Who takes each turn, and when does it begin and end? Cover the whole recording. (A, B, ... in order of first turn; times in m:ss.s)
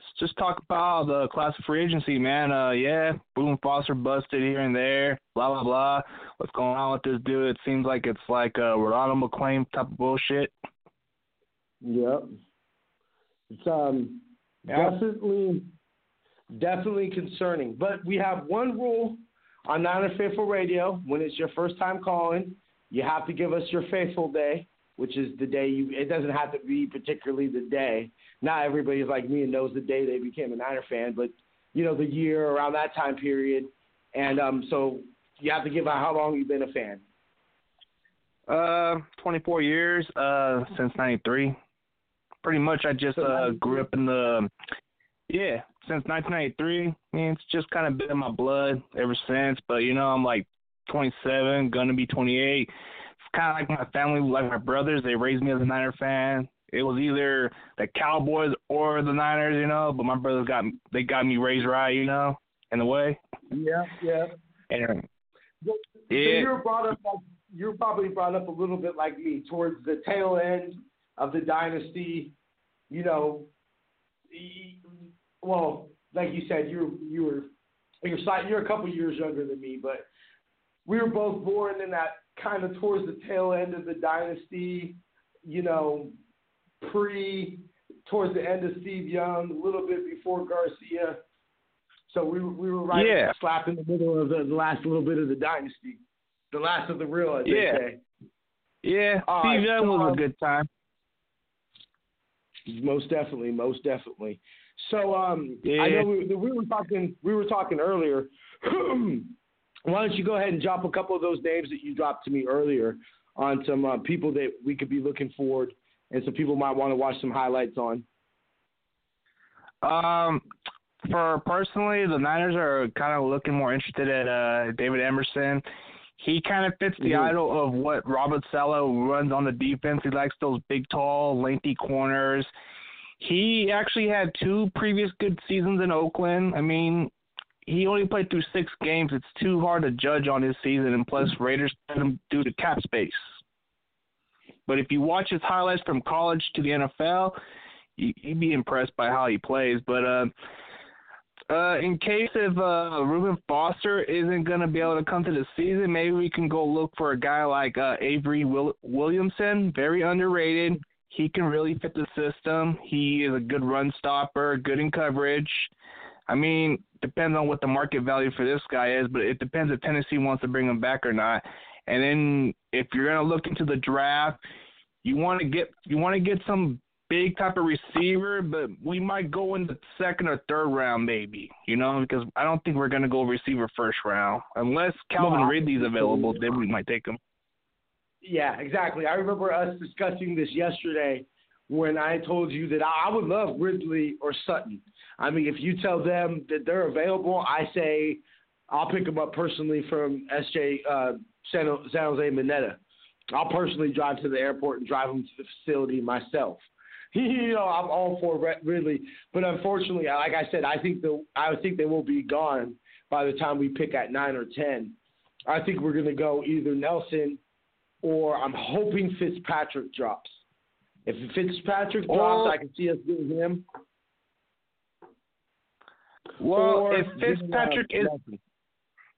0:00.2-0:10.5 A
0:11.8-0:12.3 B
0:13.5-0:15.7 B
0:14.7-0:15.0 A
0:16.5-0:37.0 B
0:38.5-0:41.6 A
0:42.4-0:44.5 A
0:43.2-0:43.9 B
0:45.3-0:52.7 A
0:53.3-1:03.2 A
1:03.5-1:04.3 B
1:04.7-1:05.1 A
1:05.6-1:12.3 B
1:06.1-1:06.5 A
1:12.9-1:13.5 B
1:14.3-1:14.8 B
1:15.4-1:17.5 B
1:18.0-1:20.1 B
1:20.9-1:26.1 B
1:26.8-1:31.2 B
1:32.1-1:36.0 B
1:32.9-1:33.4 A
1:36.5-1:38.0 B
1:37.4-1:37.8 A
1:38.8-1:40.7 A
1:39.3-1:40.2 B
1:42.7-1:49.3 B
1:45.6-1:46.1 A
1:49.9-1:58.0 B
1:59.8-2:00.4 A
2:01.1-2:05.6 A
2:06.2-2:12.5 A
2:07.0-2:07.4 B
2:13.2-2:17.1 A
2:17.7-2:23.3 A
2:24.7-2:27.4 A
2:28.0-2:30.3 A
2:31.5-2:45.7 A
2:46.3-2:54.4 A
2:55.0-3:07.2 A
3:05.2-3:06.6 B
3:08.2-3:22.8 B
3:23.3-3:35.0 B
3:35.5-3:37.4 B
3:38.0-3:40.4 B
3:41.1-3:43.6 B
3:42.1-3:42.6 A
3:46.4-3:48.2 A
3:46.4-3:48.4 B